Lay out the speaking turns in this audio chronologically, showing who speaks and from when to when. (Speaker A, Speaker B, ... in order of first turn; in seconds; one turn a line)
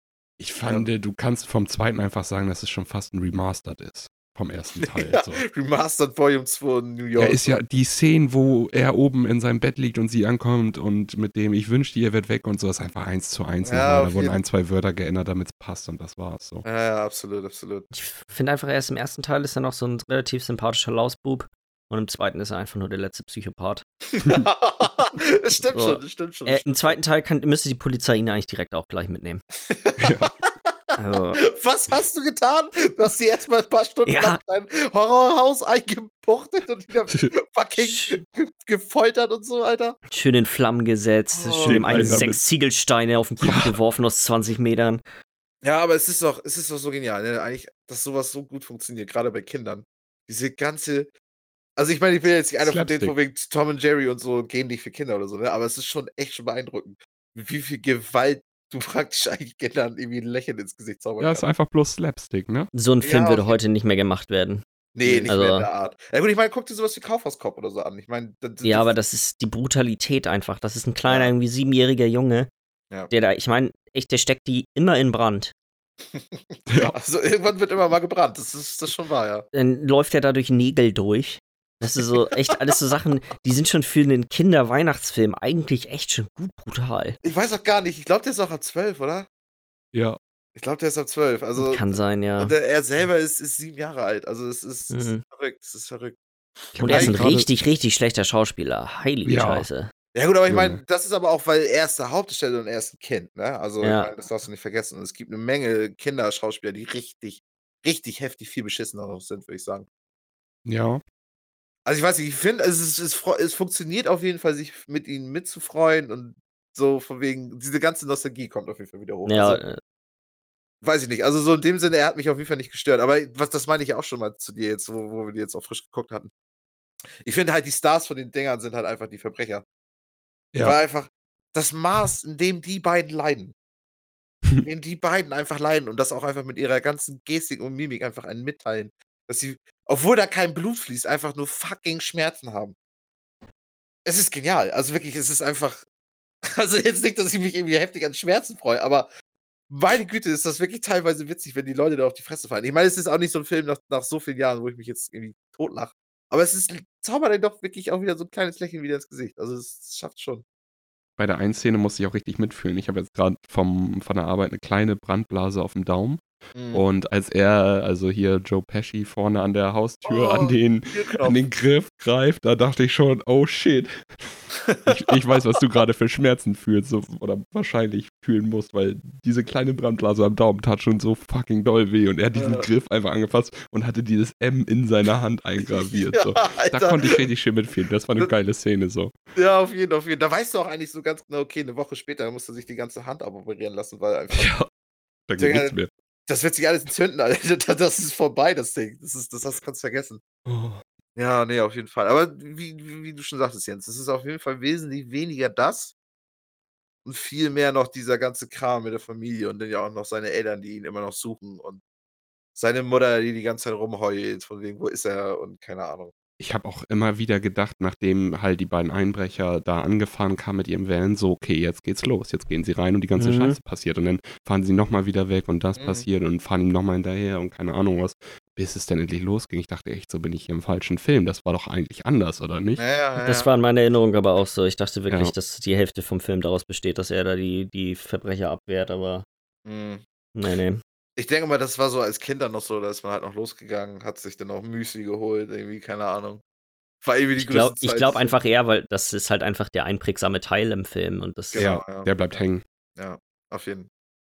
Speaker A: 0.4-5.4
Speaker B: 4.8-7.6
Speaker A: 7.2-16.6
Speaker B: 13.7-14.4
Speaker B: 16.6-17.9
Speaker C: 17.9-23.8
Speaker B: 24.2-27.0
Speaker C: 25.7-29.4
Speaker B: 29.6-40.0
Speaker A: 30.0-30.3
Speaker C: 31.0-31.4
Speaker C: 34.1-34.4
Speaker C: 37.8-38.2
Speaker C: 40.1-45.0
Speaker B: 41.3-42.2
Speaker A: 41.7-42.4
Speaker A: 43.4-43.7
Speaker B: 45.6-51.1
Speaker B: 51.8-61.5
Speaker A: 52.6-53.1
Speaker A: 61.2-62.7
Speaker C: 62.7-64.7
Speaker B: 63.0-63.6
Speaker B: 65.0-69.0
Speaker A: 65.0-65.3
Speaker C: 65.3-65.7
Speaker C: 68.6-72.5
Speaker B: 71.0-71.3
Speaker C: 73.1-75.5
Speaker B: 76.1-79.5
Speaker A: 76.7-77.0
Speaker C: 79.5-87.2
Speaker B: 87.2-89.3
Speaker A: 89.9-90.2
Speaker B: 90.6-97.3
Speaker C: 91.6-92.5
Speaker C: 94.9-95.2
Speaker A: 96.8-97.5
Speaker C: 96.8-99.9
Speaker A: 99.3-99.7
Speaker B: 100.1-109.9
Speaker A: 100.5-100.8
Speaker C: 103.8-104.1
Speaker A: 110.7-111.0
Speaker B: 111.9-119.6
Speaker C: 119.3-119.8
Speaker B: 120.8-126.3
Speaker B: 127.2-129.6
Speaker B: 130.6-133.6
Speaker B: 134.6-142.8
Speaker B: 144.1-145.8
Speaker B: 146.4-149.1
Speaker B: 149.7-160.4
Speaker A: 161.2-189.2
Speaker B: 166.6-166.8
Speaker B: 170.1-171.4
Speaker B: 174.6-175.4
Speaker B: 182.4-182.7
Speaker B: 185.9-187.2
Speaker B: 189.4-194.5
Speaker A: 194.3-194.7
Speaker A: 195.3-195.9
Speaker B: 195.4-195.8
Speaker B: 196.3-200.2
Speaker A: 200.4-200.8
Speaker B: 201.2-205.9
Speaker B: 207.1-211.8
Speaker B: 212.6-216.1
Speaker A: 216.4-232.8
Speaker C: 223.2-223.6
Speaker B: 225.8-226.1
Speaker B: 232.8-233.5
Speaker C: 233.2-239.3
Speaker B: 239.7-240.0
Speaker C: 240.3-240.8
Speaker B: 241.2-246.4
Speaker B: 247.0-248.3
Speaker C: 247.4-251.7
Speaker B: 251.5-252.4
Speaker A: 251.6-252.6
Speaker B: 253.0-253.9